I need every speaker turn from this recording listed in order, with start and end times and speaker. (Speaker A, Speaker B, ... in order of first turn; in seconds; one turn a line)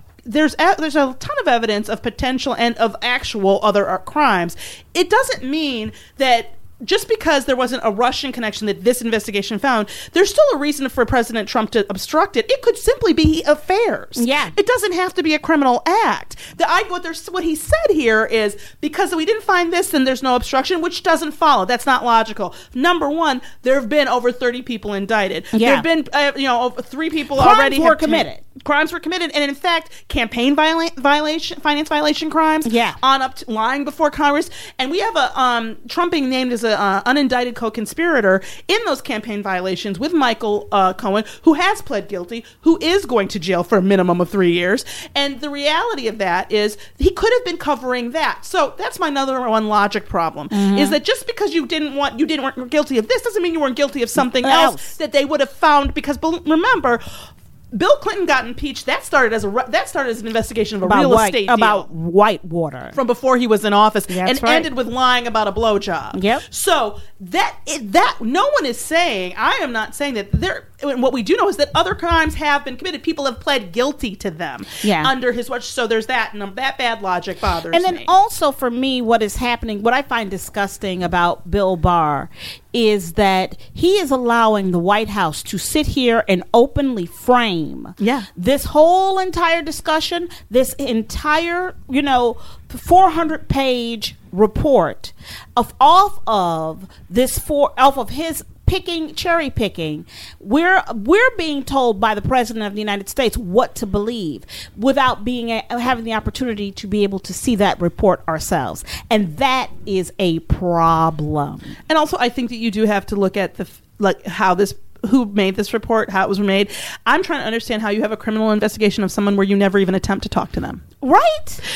Speaker A: 0.3-57.0
Speaker B: 14.2-14.5
Speaker B: 25.5-25.9
Speaker B: 27.4-28.4
Speaker B: 32.6-33.0
Speaker B: 50.5-51.0
Speaker B: 54.2-54.9
Speaker A: 57.7-61.9
Speaker B: 60.8-63.0
Speaker A: 62.9-78.1
Speaker B: 64.1-64.7
Speaker B: 66.1-66.5
Speaker B: 74.8-75.1
Speaker B: 77.7-111.8
Speaker A: 88.0-88.3
Speaker A: 111.9-120.8
Speaker B: 121.0-121.6